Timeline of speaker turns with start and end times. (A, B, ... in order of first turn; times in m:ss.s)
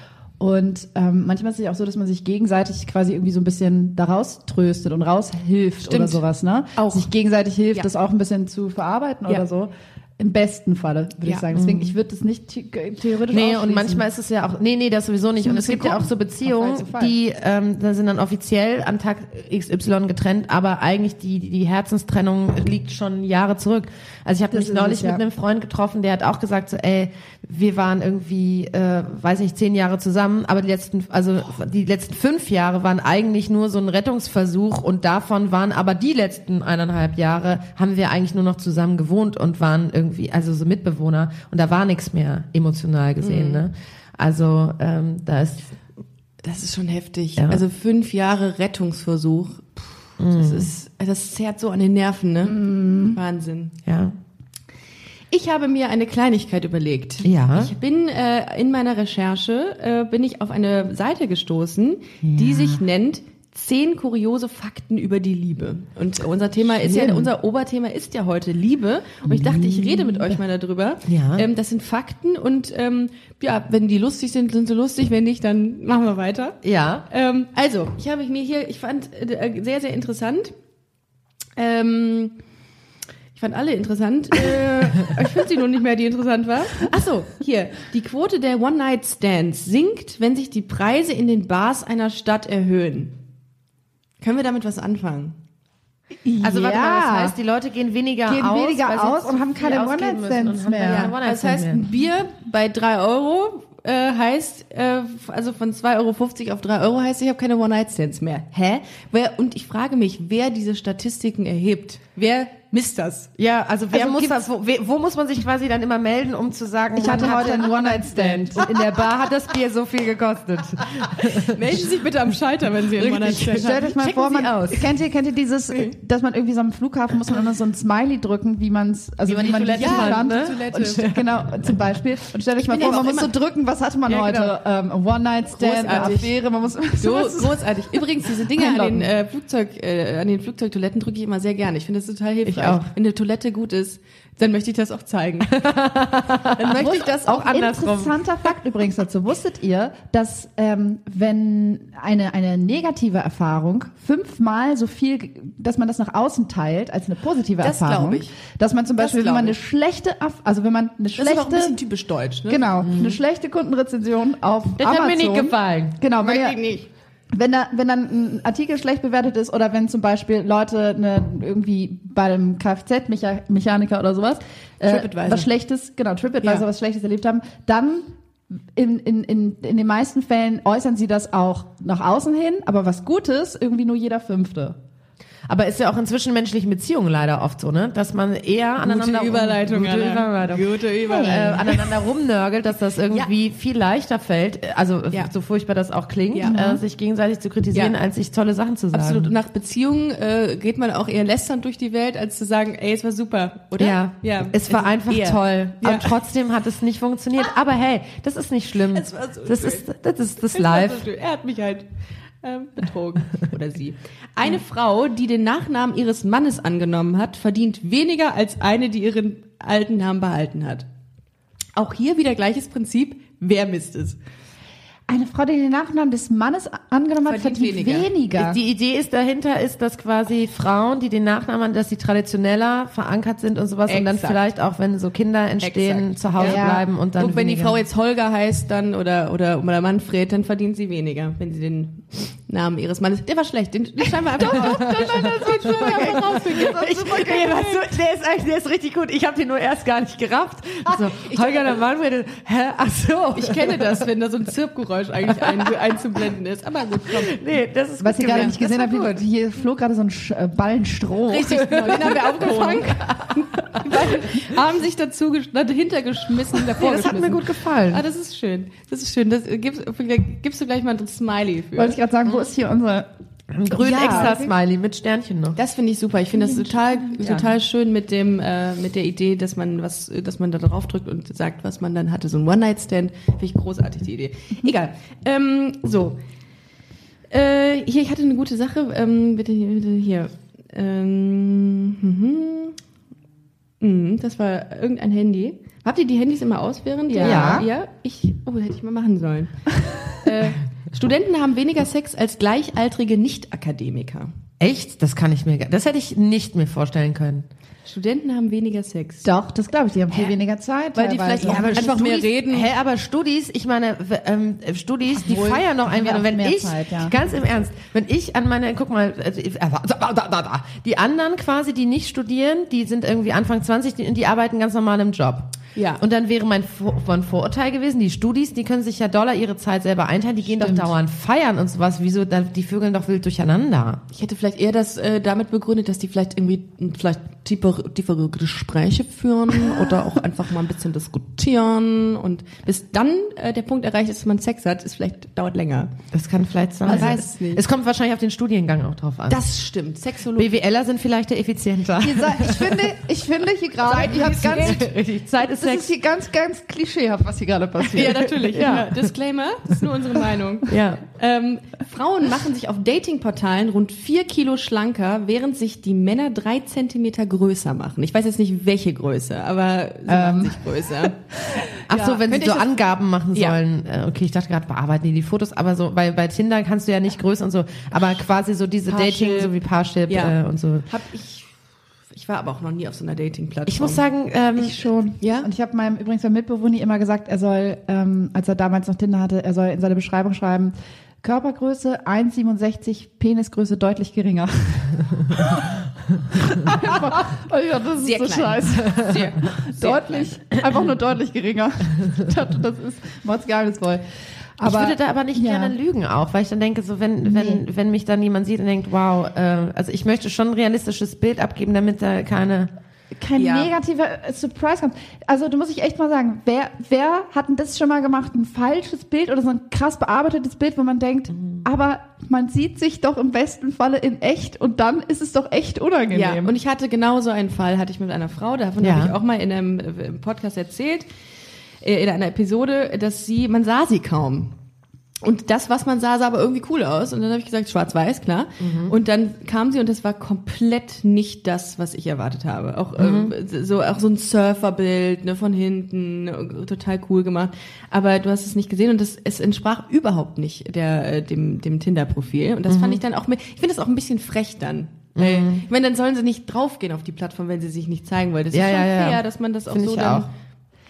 0:00.4-0:14.0 A
0:05.8-0:06.2 B
0:06.8-0:07.1 B
0:11.5-0:11.9 C
0:13.3-0:45.7 C
0:15.4-0:17.1 A
0:24.5-0:25.2 A
0:43.2-0:43.6 B
0:46.4-0:53.7 B
0:47.4-0:47.6 C
0:50.2-0:50.7 C
0:52.4-0:53.2 A
0:53.8-0:54.1 C
0:55.3-1:16.6 B
0:57.2-0:57.7 C
1:02.2-1:02.7 C
1:06.8-1:07.3 C
1:09.3-1:10.3 A
1:11.0-1:11.5 C
1:16.6-1:17.0 C
1:17.1-1:20.5 B
1:21.6-1:22.3 B
1:23.3-1:33.1 B
1:34.2-1:35.4 B
1:36.2-1:37.4 A
1:36.4-1:41.8 C
1:38.3-1:41.1 A
1:40.9-1:53.3 B
1:53.4-2:01.8 C
1:53.9-1:54.4 B
1:57.0-1:59.0 A
2:01.2-2:03.9 B
2:02.9-2:04.9 C
2:03.5-2:19.1 A
2:09.2-2:11.2 C
2:09.7-2:11.1 B
2:12.6-2:13.3 B
2:14.1-2:14.5 B
2:15.5-2:16.4 B
2:17.0-2:25.6 B
2:22.4-2:22.9 C
2:25.5-2:28.2 C
2:26.6-2:27.5 B
2:26.7-2:41.8 A
2:37.6-2:38.3 B
2:39.0-2:39.6 B
2:41.2-2:42.7 B
2:42.5-2:46.6 A
2:42.8-2:43.2 C
2:44.8-2:46.0 C
2:46.2-2:46.9 B
2:47.3-2:58.1 A
2:54.8-2:55.5 B
2:58.7-3:04.8 A
3:05.5-3:19.3 C
3:08.8-3:11.9 B
3:11.0-3:11.6 A
3:16.3-3:16.6 B
3:16.4-3:16.8 A
3:18.9-3:26.2 B
3:23.8-3:31.0 C
3:28.9-3:29.9 B
3:30.4-3:40.8 B
3:41.8-3:44.2 B
3:45.1-3:48.6 A
3:47.2-3:48.1 B
3:48.3-3:57.8 C
3:53.8-3:54.4 B
3:55.6-4:08.0 B
3:56.4-3:56.8 A
4:04.3-4:07.7 A
4:04.4-4:14.1 C
4:11.0-4:11.8 B
4:13.3-4:17.4 B
4:17.3-4:19.1 C
4:18.0-4:23.0 A
4:18.3-4:18.6 B
4:21.3-4:32.0 B
4:21.7-4:23.3 C
4:26.7-4:28.0 C
4:31.8-4:33.1 A
4:33.5-4:35.6 C
4:33.7-4:34.4 A
4:33.8-4:34.5 B
4:35.6-4:46.2 B
4:36.4-4:37.4 A
4:47.3-4:52.8 B
4:53.8-4:59.6 B
4:57.1-4:57.7 A
4:57.2-4:57.6 C
5:00.2-5:04.3 B
5:04.6-5:07.5 C
5:07.8-5:09.3 B
5:09.2-5:12.3 A
5:10.9-5:12.7 B
5:11.4-5:34.0 C
5:15.1-5:17.1 A
5:25.7-5:26.0 B
5:30.6-5:30.9 A
5:34.1-5:45.9 B
5:46.1-5:49.4 C
5:46.8-5:47.6 B
5:46.9-5:47.2 A
5:49.3-5:50.6 B
5:50.3-5:52.8 C
5:52.0-5:54.9 A
5:53.8-5:54.9 B
5:54.5-5:55.9 C
5:55.4-5:58.6 A
5:57.9-6:11.2 B
5:58.5-5:59.0 C
6:00.7-6:01.0 C
6:10.1-6:10.8 A
6:11.9-6:20.9 C
6:11.9-6:12.8 B
6:18.9-6:19.5 B
6:20.1-6:20.4 B
6:20.9-6:21.5 B
6:22.1-6:24.0 B
6:23.6-6:24.8 C
6:24.6-6:44.0 A
6:25.2-6:25.5 B
6:38.0-6:40.4 B
6:44.6-6:45.7 A
6:44.6-6:52.7 C
6:47.2-6:47.6 A
6:53.1-7:06.6 A
6:53.4-6:53.7 B
7:01.4-7:01.6 C
7:06.1-7:11.1 B
7:08.8-7:09.1 C
7:11.8-7:14.5 B
7:15.2-7:40.3 B
7:18.6-7:18.9 C
7:23.0-7:23.3 C
7:32.7-7:33.0 C
7:35.1-7:35.6 C
7:38.5-7:40.3 C